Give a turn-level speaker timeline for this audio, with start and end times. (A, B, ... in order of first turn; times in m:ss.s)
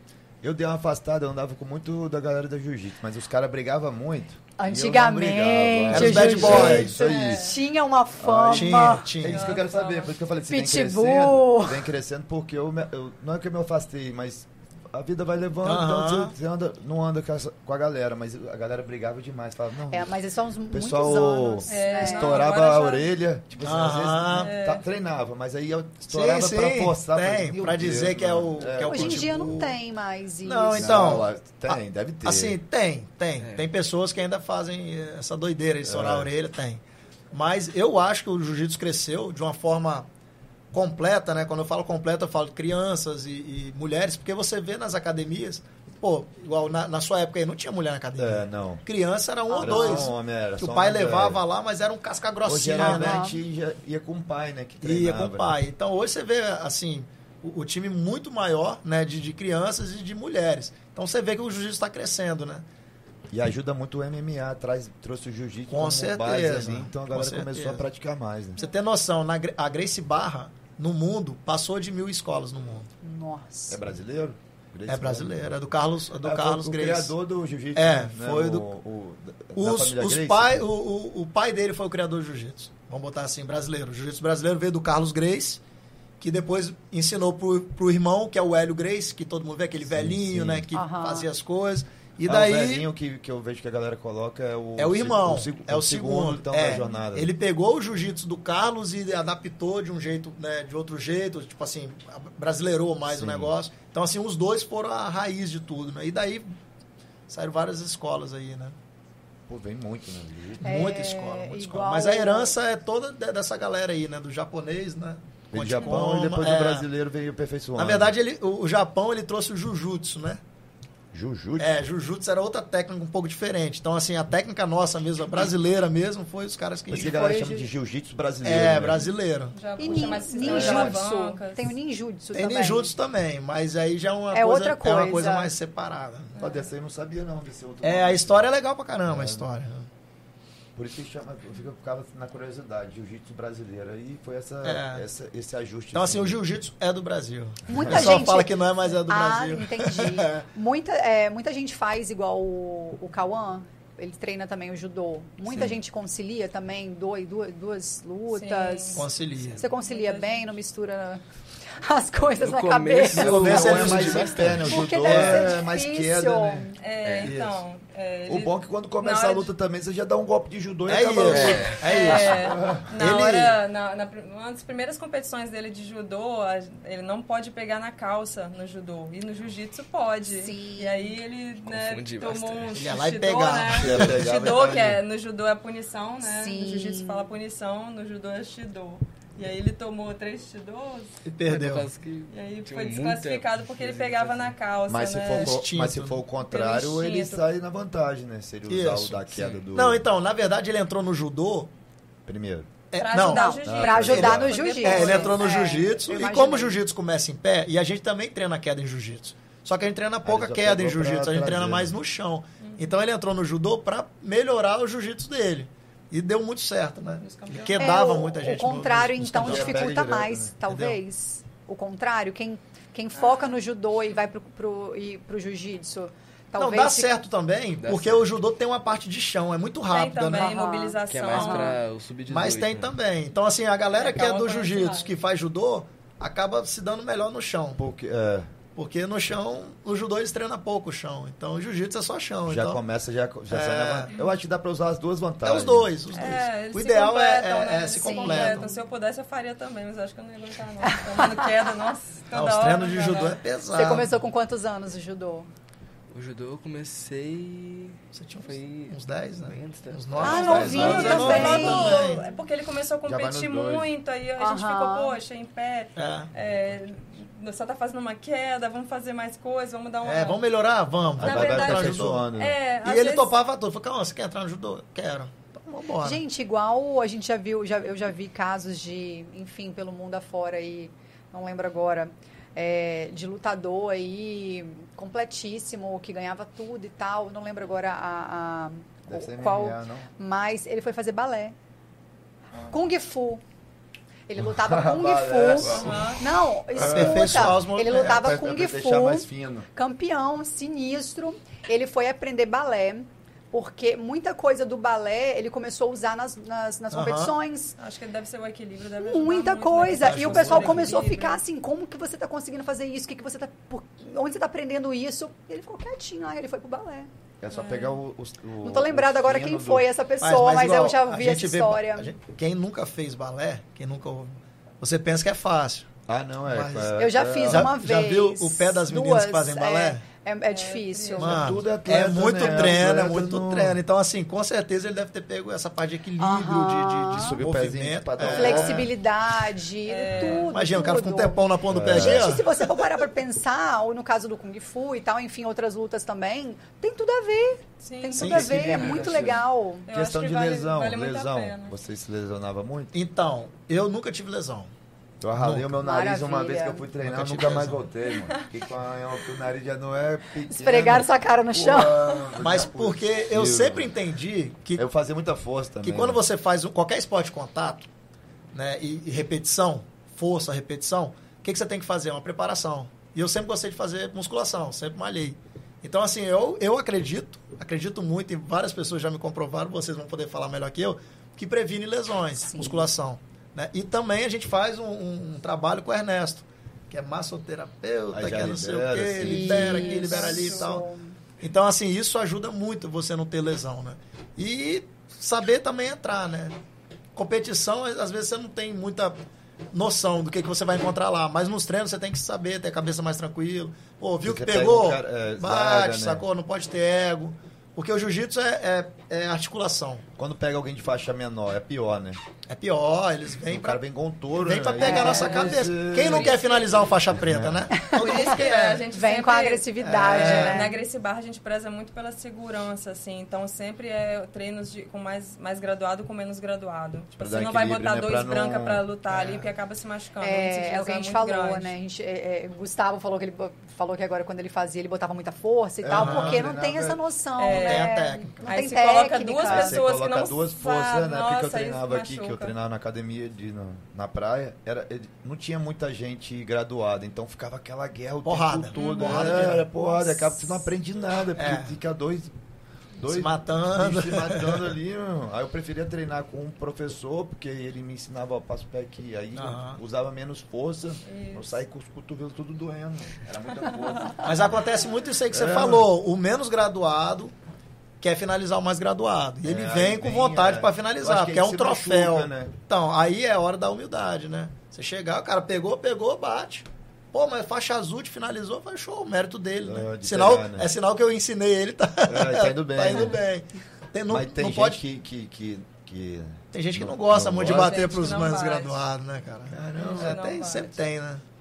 0:00.4-0:07.5 A
0:04.6-0:09.1 B
0:05.9-0:07.0 C
0:06.8-0:07.6 D
0:08.2-0:20.2 A
0:08.5-0:09.6 C
0:09.3-0:10.1 D
0:10.5-0:11.9 B
0:15.6-0:16.3 C
0:19.9-0:22.4 B
0:20.7-0:29.7 A
0:21.7-0:23.1 D
0:23.6-0:24.5 C
0:24.3-0:24.8 D
0:26.1-0:29.7 C
0:28.8-0:31.2 B
0:30.4-0:40.1 C
0:30.7-0:32.6 A
0:33.4-0:33.7 E
0:35.8-0:36.3 A
0:40.7-0:53.2 C
0:48.2-0:48.8 A
0:49.5-0:50.1 B
0:49.5-0:51.4 A
0:52.4-0:55.6 A
0:52.7-0:53.4 B
0:54.8-1:02.6 C
1:03.3-1:08.6 A
1:05.7-1:07.8 C
1:08.6-1:12.9 C
1:13.0-1:13.8 B
1:13.7-1:20.7 A
1:14.9-1:17.1 C
1:17.8-1:18.7 C
1:19.6-1:25.6 C
1:26.2-1:32.8 C
1:29.8-1:30.7 A
1:30.7-1:31.3 B
1:32.3-1:37.3 A
1:34.8-1:46.5 C
1:43.1-1:43.5 A
1:47.3-1:48.8 C
1:49.5-1:50.9 A
1:50.6-1:56.9 C
1:50.6-1:52.5 B
1:55.5-1:58.1 A
1:57.8-2:00.4 C
2:01.1-2:01.7 A
2:01.6-2:07.2 C
2:06.9-2:09.1 A
2:07.0-2:07.7 B
2:08.4-2:10.8 C
2:09.5-2:11.7 D
2:09.8-2:12.9 B
2:10.4-2:11.0 A
2:12.3-2:16.4 C
2:14.3-2:15.5 B
2:16.4-2:16.7 D
2:16.4-2:18.5 A
2:17.8-2:19.9 C
2:19.1-2:19.5 A
2:20.8-2:26.4 A
2:24.6-2:25.0 C
2:25.9-2:30.5 C
2:27.7-2:39.1 B
2:27.7-2:28.1 A
2:38.3-2:40.5 D
2:39.0-2:39.6 C
2:39.6-2:41.2 B
2:41.8-2:44.0 B
2:42.4-2:44.6 E
2:43.1-2:46.7 A
2:43.1-2:45.6 C
2:44.6-2:46.8 B
2:46.8-2:49.5 D
2:47.0-2:47.3 E
2:47.2-2:47.6 A
2:48.3-2:52.9 A
2:50.9-2:53.6 C
2:51.3-2:52.0 E
2:51.8-3:11.2 D
3:00.3-3:01.1 B
3:01.6-3:02.9 E
3:02.7-3:04.3 C
3:03.7-3:05.0 A
3:06.2-3:07.3 B
3:11.2-3:11.9 C
3:11.5-3:14.5 E
3:12.3-3:15.6 D
3:14.9-3:20.0 A
3:15.3-3:16.2 C
3:16.5-3:17.4 D
3:18.7-3:21.7 C
3:19.3-3:19.6 E
3:22.3-3:22.7 A
3:22.9-3:39.8 C
3:23.0-3:25.4 D
3:23.2-3:26.8 B
3:23.6-3:24.6 A
3:30.2-3:32.0 A
3:32.6-3:32.9 D
3:37.2-3:38.0 D
3:37.8-3:47.1 B
3:39.4-3:40.5 A
3:40.7-3:41.0 C
3:46.6-3:50.5 C
3:47.8-3:48.3 E
3:49.9-3:51.8 D
3:50.3-3:51.8 B
3:51.1-3:52.9 E
3:52.3-3:57.8 C
3:53.9-3:55.1 D
3:57.8-3:58.5 A
3:58.8-4:02.8 C
4:02.5-4:05.9 A
4:03.5-4:04.1 C
4:05.4-4:08.7 C
4:06.1-4:13.4 D
4:08.0-4:08.8 B
4:10.8-4:11.5 B
4:12.3-4:14.1 C
4:13.7-4:15.5 B
4:16.1-4:21.4 E
4:18.1-4:22.2 C
4:20.2-4:22.0 B
4:20.3-4:22.1 A
4:20.6-4:30.4 D
4:23.0-4:23.9 A
4:24.4-4:25.2 B
4:26.0-4:26.3 C
4:30.0-4:32.2 C
4:31.2-4:32.6 A
4:31.2-4:33.3 D
4:32.8-4:36.2 C
4:36.0-4:51.6 B
4:49.1-4:50.1 A
4:52.7-4:53.4 B
4:54.3-5:07.8 B
4:54.4-4:56.1 A
4:55.6-4:56.2 D
4:55.8-4:56.1 C
4:56.8-4:58.4 C
4:56.8-4:59.7 A
5:06.9-5:07.3 C
5:07.8-5:11.4 D
5:09.0-5:17.1 B
5:10.0-5:11.0 C
5:17.4-5:19.9 A
5:17.5-5:18.0 D
5:18.6-5:22.1 B
5:20.2-5:25.9 C
5:26.1-5:27.7 A
5:26.4-5:26.9 C
5:27.0-5:31.6 B
5:27.5-5:30.0 C
5:30.5-5:31.4 D
5:31.2-5:33.8 A
5:31.2-5:38.9 C
5:36.2-5:37.4 B
5:37.1-5:38.9 A
5:38.3-5:49.9 B
5:39.9-5:40.5 D
5:40.3-5:42.9 C
5:41.7-5:42.4 A
5:47.8-5:49.2 D
5:48.2-5:49.0 C
5:48.2-5:52.9 A
5:49.9-5:51.8 D
5:52.9-5:54.7 C
5:55.2-6:04.0 A
5:55.4-5:55.8 C
5:55.8-5:56.9 B
5:57.0-5:57.9 C
5:58.2-5:58.5 D
6:00.5-6:02.0 B
6:02.4-6:04.9 C
6:04.8-6:06.2 A
6:05.8-6:07.9 C
6:08.5-6:30.8 C
6:22.4-6:22.9 B
6:28.1-6:30.0 A
6:29.2-6:31.2 B
6:29.7-6:30.7 D
6:31.4-6:36.6 C
6:37.2-6:39.2 C
6:39.7-6:50.0 C
6:44.2-6:46.2 A
6:50.2-6:52.2 A
6:52.5-6:53.8 C
6:53.5-6:57.7 A
6:54.4-6:58.8 C
6:54.8-6:55.5 B
6:55.1-6:56.9 D
6:57.7-6:58.4 B
6:57.9-7:11.8 D
6:58.9-7:00.8 B
6:59.8-7:00.7 C
7:07.2-7:08.8 A
7:09.1-7:09.5 C
7:10.2-7:19.8 B
7:15.8-7:17.0 A
7:15.9-7:16.4 C
7:17.4-7:22.5 D
7:17.5-7:18.5 C
7:19.5-7:32.3 A
7:28.2-7:29.7 C
7:28.8-7:29.6 D
7:29.8-7:30.6 B
7:31.4-7:31.8 C
7:33.0-7:44.6 A
7:33.1-7:34.7 C
7:39.4-7:39.8 C
7:41.1-7:41.6 D
7:44.2-7:47.3 C
7:45.3-7:45.9 A
7:48.0-8:04.8 C
7:49.4-7:52.5 A
7:59.6-8:00.7 A
8:02.1-8:03.2 A
8:04.1-8:07.9 A
8:06.5-8:11.2 C
8:07.4-8:08.8 D
8:09.8-8:10.7 D